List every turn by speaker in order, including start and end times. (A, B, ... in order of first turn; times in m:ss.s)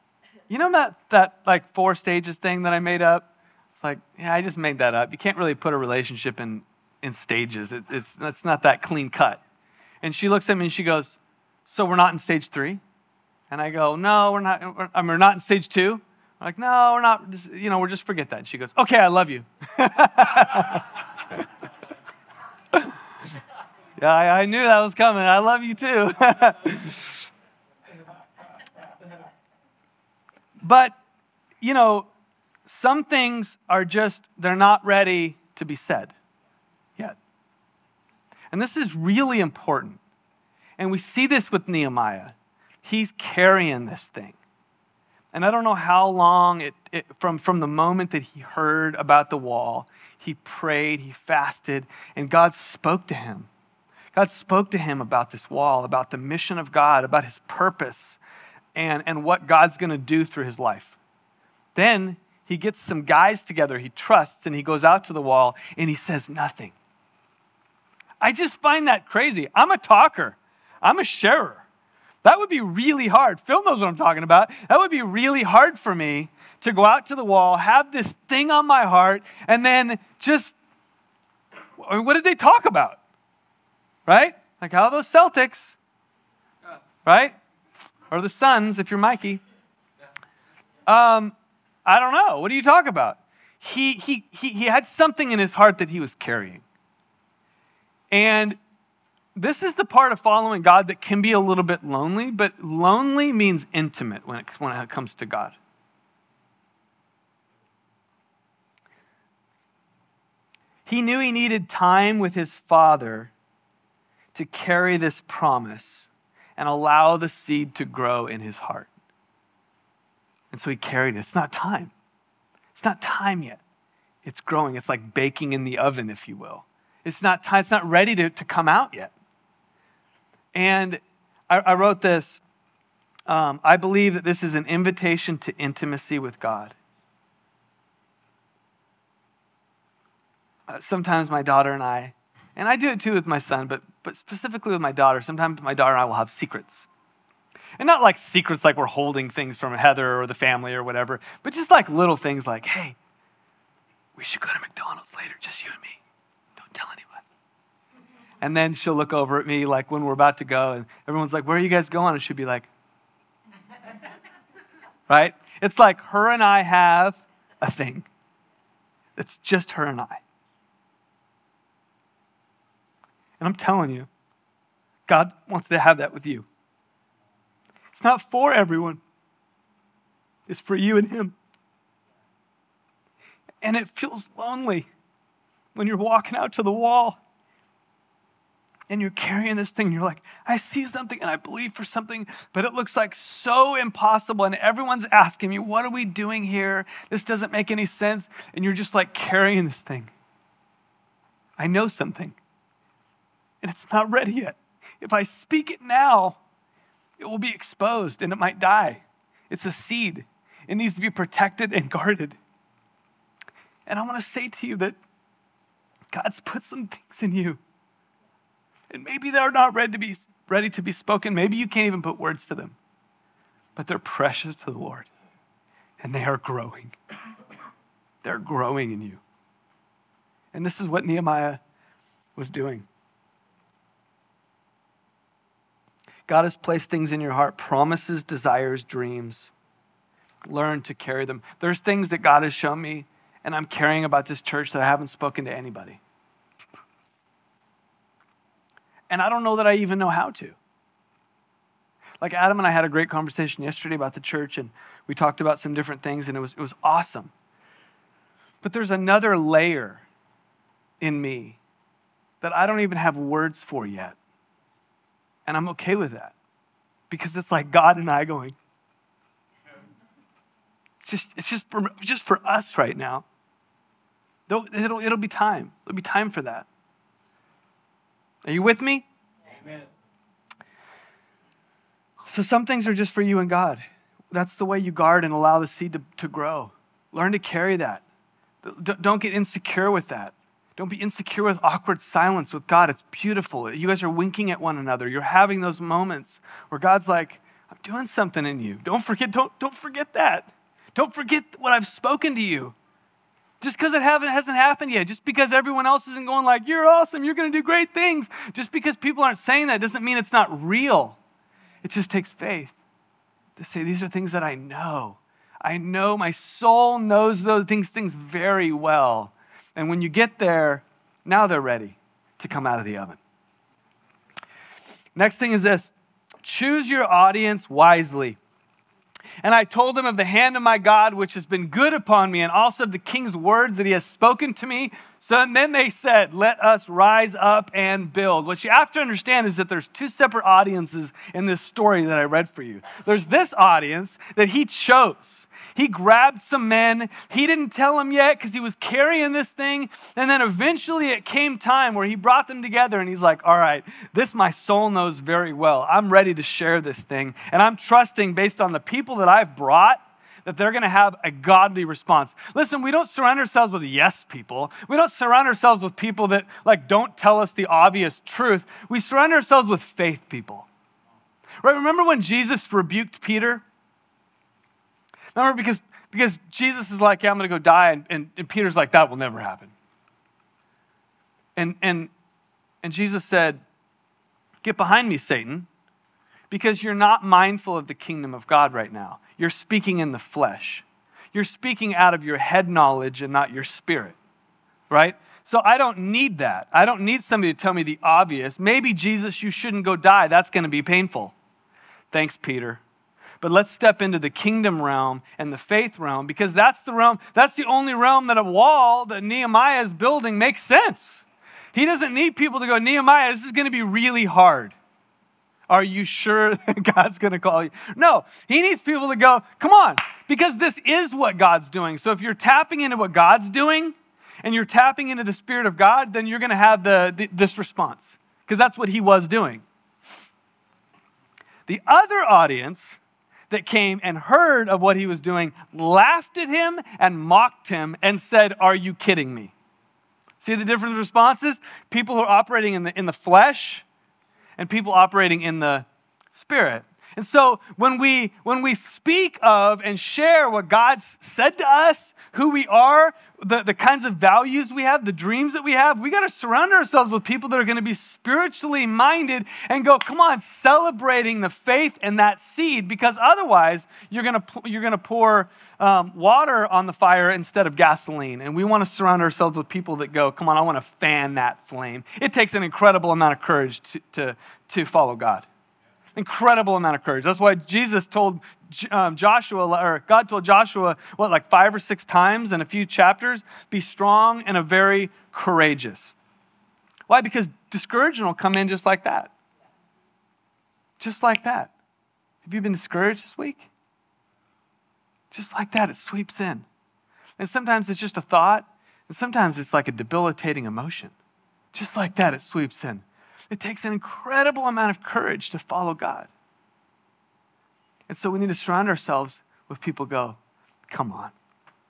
0:00.5-0:09.4 A
0:10.0-0:12.8 A
0:13.5-0:21.4 A
0:24.0-0:27.2 A
0:30.6-0:31.0 A
0:31.6-0:32.1 A
0:32.7-0:36.2 A
0:38.5-0:40.0 A
0:40.8-0:44.4 A
0:45.3-0:53.5 A
0:54.1-0:58.2 A
0:58.8-1:01.0 A
1:01.8-1:06.8 A
1:08.2-1:11.6 A
1:12.2-1:20.6 A
1:21.8-1:23.0 A
1:24.1-1:25.8 A
1:27.0-1:27.4 A
1:28.1-1:29.4 A
1:30.9-1:36.6 A
1:38.1-1:38.6 A
1:39.4-1:45.6 A
1:50.8-1:53.3 A
1:54.4-1:58.9 A
2:00.5-2:01.9 A
2:02.7-2:03.6 A
2:04.2-2:09.1 A
2:10.5-2:12.4 A
2:13.3-2:16.8 A
2:20.7-2:26.9 A
2:27.8-2:33.0 A
2:34.2-2:36.0 A
2:36.6-2:37.2 A
2:38.4-2:42.7 A
2:45.1-2:48.1 A
2:49.2-2:50.2 A
2:53.4-2:54.1 A
2:55.1-2:56.5 A
2:57.9-2:59.0 A
3:00.5-3:01.4 A
3:03.6-3:04.9 A
3:05.8-3:07.2 A
3:08.9-3:20.1 A
3:21.6-3:22.4 A
3:23.6-3:26.4 A
3:27.2-3:32.4 A
3:33.9-3:35.0 A
3:36.1-3:37.6 A
3:38.9-3:42.8 A
3:43.8-3:45.1 A
3:46.0-3:47.0 A
3:48.2-3:49.2 A
3:50.5-3:51.6 A
3:52.4-3:52.9 A
3:56.3-3:59.5 A
4:00.5-4:06.0 A
4:09.1-4:10.6 A
4:12.2-4:17.3 A
4:18.6-4:20.0 A
4:21.0-4:21.6 A
4:22.4-4:24.2 A
4:25.5-4:26.4 A
4:27.1-4:28.6 A
4:31.0-4:33.2 A
4:34.5-4:36.7 A
4:38.4-4:39.1 A
4:42.3-4:48.0 A
4:48.6-5:02.8 A
5:03.6-5:11.2 A
5:11.8-5:12.8 A
5:13.6-5:23.2 A
5:25.2-5:28.4 A
5:29.4-6:10.7 A
6:11.6-6:13.6 A
6:15.4-6:19.7 A
6:21.6-6:22.1 A
6:22.8-6:23.6 A
6:24.6-6:25.7 A
6:26.5-6:34.2 A
6:34.9-6:41.4 A
6:42.1-6:42.8 A
6:43.4-6:54.8 A
6:55.7-7:09.6 A
7:11.7-7:13.0 A
7:13.5-7:19.5 A
7:20.4-7:23.8 A
7:24.6-7:55.5 A
7:56.2-8:06.2 A
8:07.1-8:09.3 A
8:11.0-8:11.7 A
8:12.4-8:13.7 A
8:15.3-8:16.7 A
8:17.4-8:21.2 A
8:21.7-8:26.3 A
8:28.1-8:31.3 A